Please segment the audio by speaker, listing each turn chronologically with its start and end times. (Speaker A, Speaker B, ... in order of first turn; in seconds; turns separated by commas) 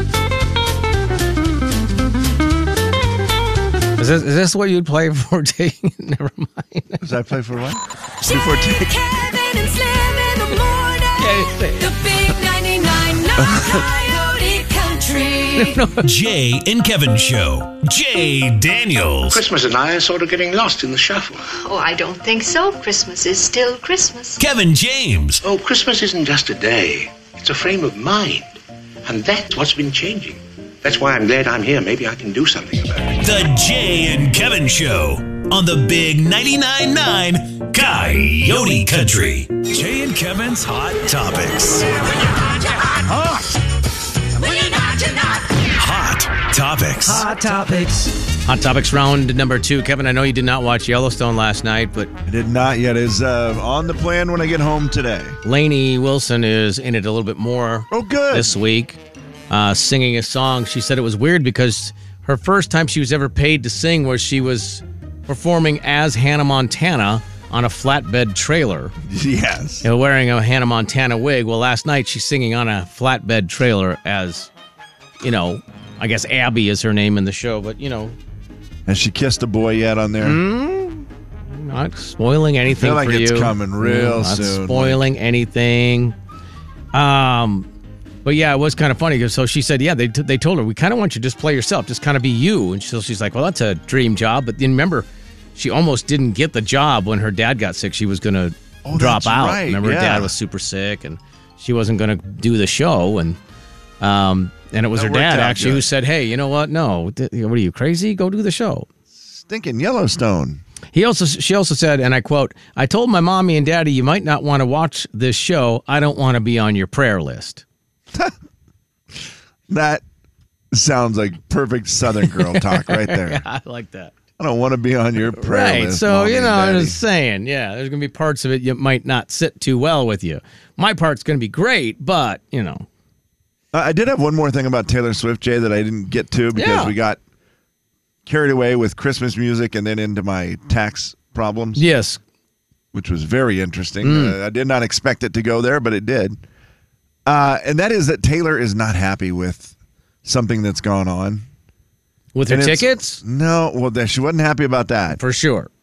Speaker A: 4.0-7.0, Speaker B: 7.0-9.0, Speaker C: 8.2-15.8, Speaker A: 11.2-11.9, Speaker B: 13.4-13.8, Speaker A: 15.6-16.0, Speaker D: 16.0-19.4, Speaker E: 19.3-21.5, Speaker F: 21.6-24.4, Speaker D: 24.4-25.4, Speaker E: 25.4-33.2, Speaker D: 33.2-41.9, Speaker D: 43.0-43.5, Speaker D: 45.7-48.1, Speaker A: 48.4-52.1, Speaker B: 52.3-55.4, Speaker A: 55.4-59.0, Speaker B: 57.9-58.5, Speaker A: 59.5-68.9, Speaker B: 69.0-69.9, Speaker A: 69.8-74.5, Speaker A: 75.2-78.2, Speaker B: 78.9-80.4, Speaker A: 80.2-86.2, Speaker B: 82.7-85.0, Speaker A: 86.9-87.7, Speaker A: 88.2-103.4, Speaker B: 98.8-100.3, Speaker A: 104.0-108.9, Speaker B: 105.0-105.9, Speaker B: 109.1-110.6, Speaker A: 110.9-117.6, Speaker B: 119.1-120.0, Speaker B: 120.7-123.4, Speaker A: 122.2-124.1, Speaker B: 124.4-127.0, Speaker A: 125.3-132.8, Speaker B: 133.7-137.2, Speaker A: 136.5-136.9, Speaker B: 138.2-141.8, Speaker A: 141.8-142.2, Speaker B: 142.9-146.4, Speaker A: 144.0-144.3, Speaker B: 147.2-151.4, Speaker A: 152.3-153.2, Speaker B: 152.5-155.2, Speaker A: 155.2-155.7